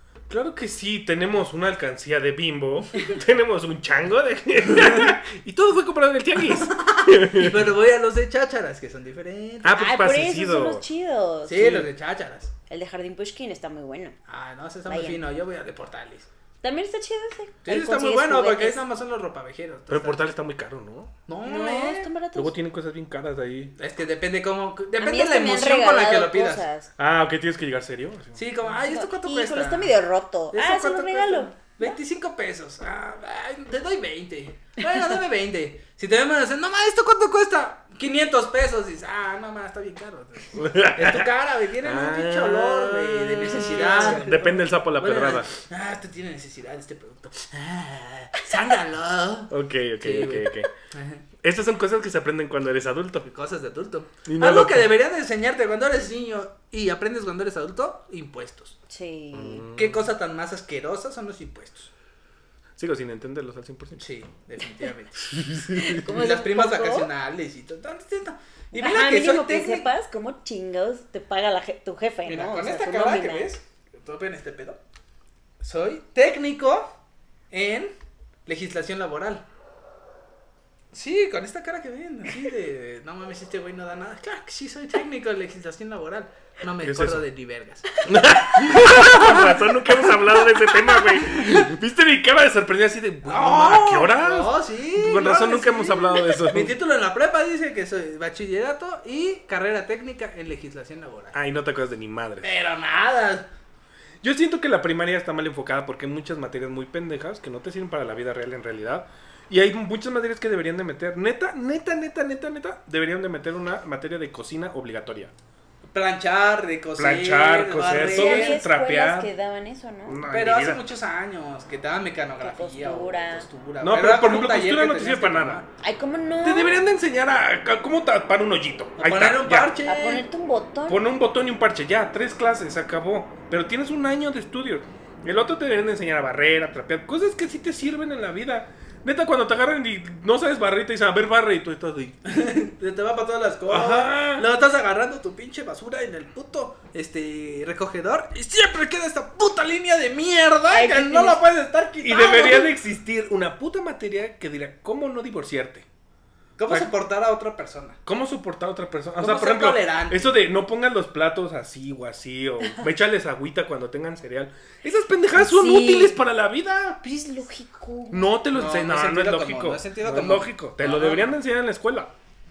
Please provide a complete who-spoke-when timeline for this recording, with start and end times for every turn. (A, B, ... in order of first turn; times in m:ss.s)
0:00.3-0:07.7 A
0:06.5-0:09.8 B
0:09.6-0:10.8 A
0:09.8-0:11.9 C
0:11.5-0:12.5 B
0:12.7-0:14.2 C
0:14.3-0:16.3 B
0:14.9-0:15.2 C
0:16.6-0:18.8 C
0:17.6-0:20.2 B
0:19.9-0:21.1 A
0:21.3-0:22.1 B
0:21.4-0:22.6 C
0:22.4-0:23.7 A
0:23.8-0:26.6 B
0:25.0-0:26.9 C
0:27.0-0:28.4 A
0:28.4-0:30.0 B
0:28.8-0:32.0 C
0:30.5-0:51.2 B
0:40.6-0:41.3 A
0:41.8-0:45.5 A
0:43.8-0:44.2 C
0:49.5-0:50.7 A
0:51.4-0:53.3 A
0:53.2-0:58.8 B
0:54.3-0:54.9 A
0:58.9-0:59.7 C
0:59.3-1:00.0 A
0:59.7-1:01.9 B
1:02.8-1:04.0 A
1:04.0-1:09.9 B
1:05.3-1:06.0 A
1:05.7-1:07.1 C
1:08.7-1:13.5 C
1:12.3-1:14.8 B
1:15.6-1:16.9 B
1:17.5-1:17.9 B
1:18.5-1:19.4 B
1:20.9-1:28.0 B
1:26.8-1:27.2 A
1:28.0-1:36.8 A
1:28.6-1:29.7 B
1:31.0-1:31.7 B
1:33.2-1:41.4 B
1:41.3-1:42.5 A
1:42.4-1:43.5 B
1:44.2-1:55.3 A
1:55.9-1:58.6 B
1:57.0-1:59.3 A
1:58.0-2:00.2 C
2:00.1-2:00.8 A
2:00.3-2:05.7 B
2:02.4-2:03.5 C
2:03.8-2:05.6 A
2:05.8-2:06.7 C
2:06.4-2:09.8 A
2:09.0-2:10.2 B
2:09.8-2:11.0 C
2:10.9-2:22.2 A
2:22.3-2:32.7 B
2:23.7-2:24.5 A
2:30.7-2:31.4 C
2:32.0-2:35.9 A
2:36.6-2:38.0 B
2:38.0-2:47.0 A
2:39.2-2:40.4 B
2:45.4-2:46.2 C
2:47.0-2:48.3 C
2:48.1-2:52.1 A
2:48.5-2:51.4 B